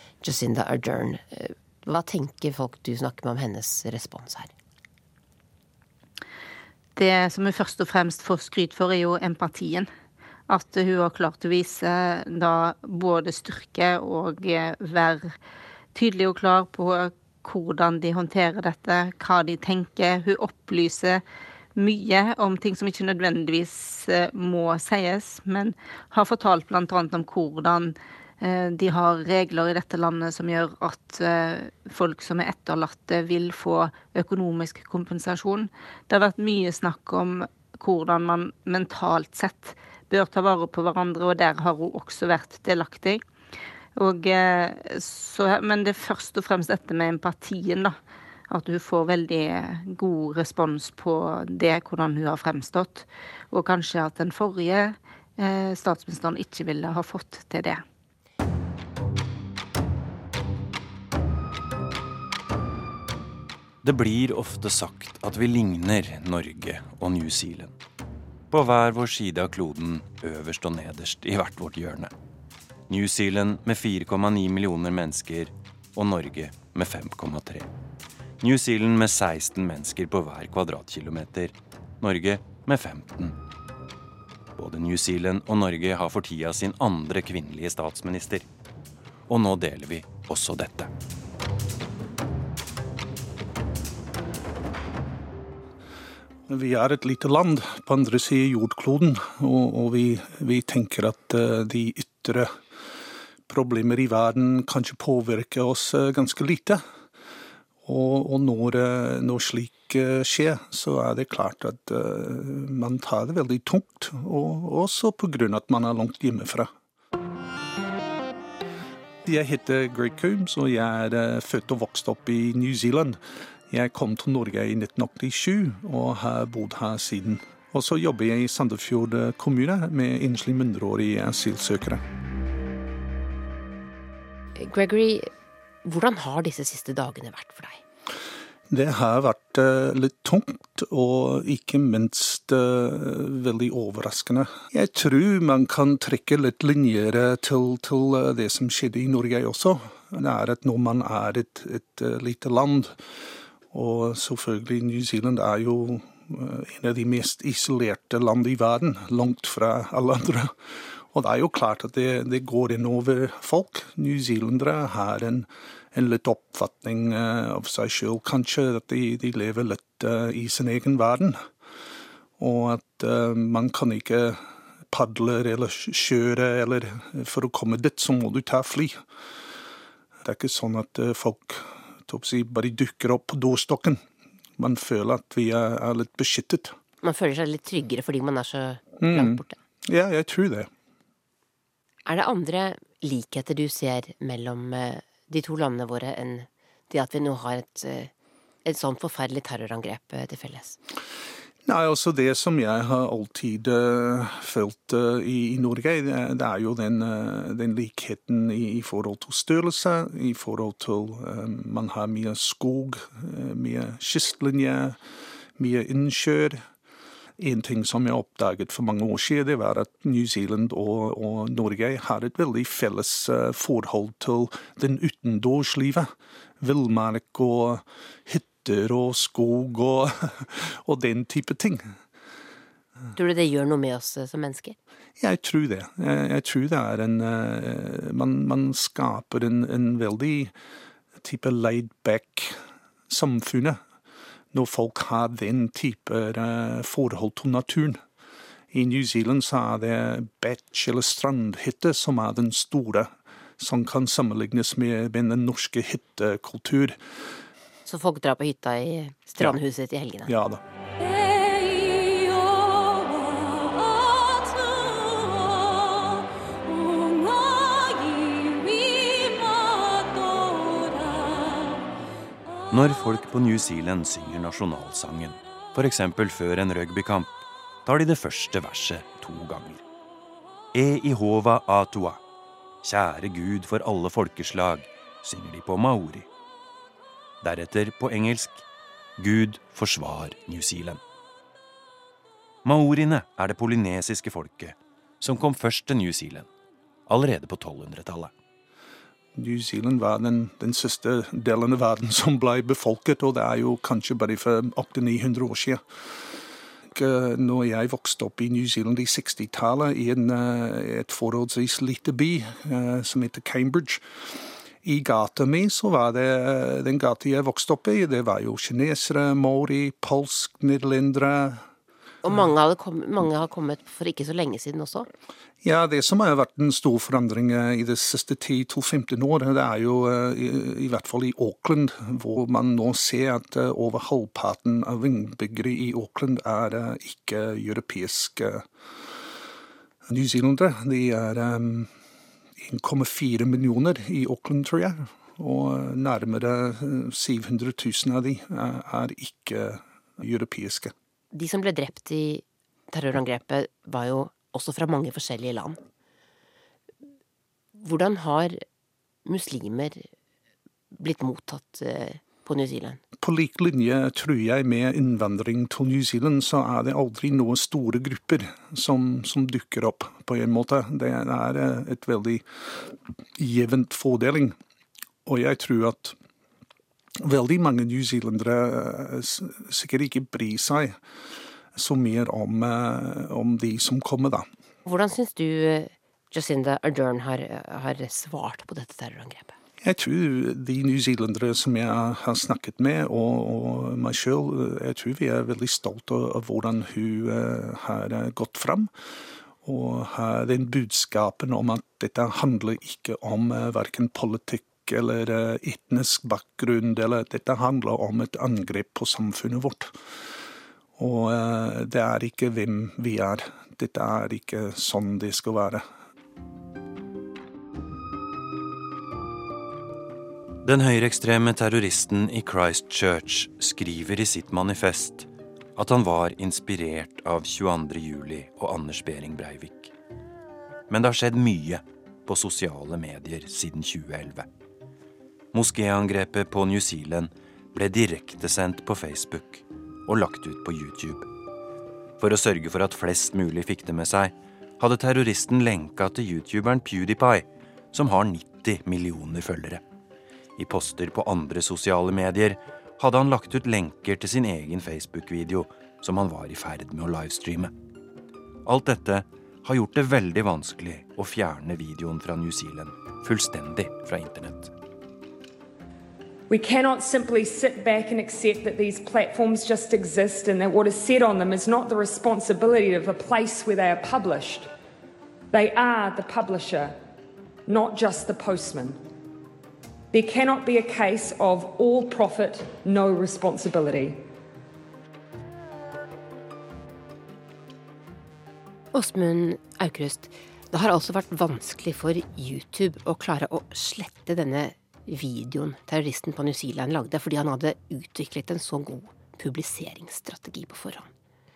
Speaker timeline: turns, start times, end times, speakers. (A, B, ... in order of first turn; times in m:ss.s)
0:00.2-0:04.5 A
0:07.0-0:09.9 B
0:10.5-0:15.3 B
0:15.9-0:21.2 B
0:21.8-0:43.2 B
0:44.0-0:48.0 B
0:48.5-0:57.8 B
1:03.8-1:07.7 C
1:08.5-1:12.1 C
1:12.9-1:17.7 C
1:18.4-1:23.4 C
1:24.6-1:28.4 C
1:29.3-1:30.9 C
1:36.5-1:42.6 D
1:43.4-1:46.8 D
1:47.8-1:56.7 D
1:59.2-2:12.0 D
2:14.6-2:15.3 A
2:15.8-2:17.8 A
2:18.7-2:33.0 D
2:33.7-2:40.5 D
2:41.1-2:51.4 D
2:52.4-2:59.0 D
3:00.2-3:04.0 D
3:04.6-3:06.7 D
3:07.0-3:09.6 A
3:09.0-3:10.7 D
3:12.0-3:18.1 A
3:18.6-3:20.8 A
3:21.6-3:35.0 D
3:35.6-3:36.6 D
3:37.4-3:51.9 D
3:53.1-3:54.8 A
3:55.2-4:00.5 D
4:01.2-4:02.6 D
4:03.1-4:03.8 D
4:04.5-4:08.0 D
4:08.7-4:17.0 D
4:17.8-4:20.3 A
4:20.3-4:20.6 D
4:32.7-4:39.8 C
4:40.7-4:42.2 C
4:42.8-4:46.3 C
4:47.4-4:48.6 C
4:49.2-4:51.0 C
4:52.6-4:56.5 C
4:57.1-4:58.3 C
4:59.3-5:05.8 D
5:06.9-5:14.0 D
5:14.8-5:21.6 D
5:22.2-5:25.1 A
5:25.6-5:38.7 D
5:40.1-5:41.9 D
5:42.6-5:50.9 D
5:51.3-5:55.8 A
5:57.7-5:58.6 A
5:59.2-6:00.1 A
6:00.9-6:03.0 A
6:03.2-6:14.6 D
6:15.2-6:16.2 D
6:17.2-6:21.0 D
6:21.7-6:24.5 D
6:24.8-6:29.5 A
6:29.8-6:38.9 D
6:39.6-6:49.9 D
6:51.0-6:55.8 D
7:00.6-7:09.9 C
7:10.9-7:14.5 C
7:15.5-7:21.3 C
7:22.2-7:29.8 C
7:30.6-7:37.7 C
7:38.6-7:44.7 C
7:46.5-7:54.7 E
7:55.5-7:57.0 E
7:57.6-7:59.0 E
8:00.1-8:04.2 E
8:08.9-8:21.1 A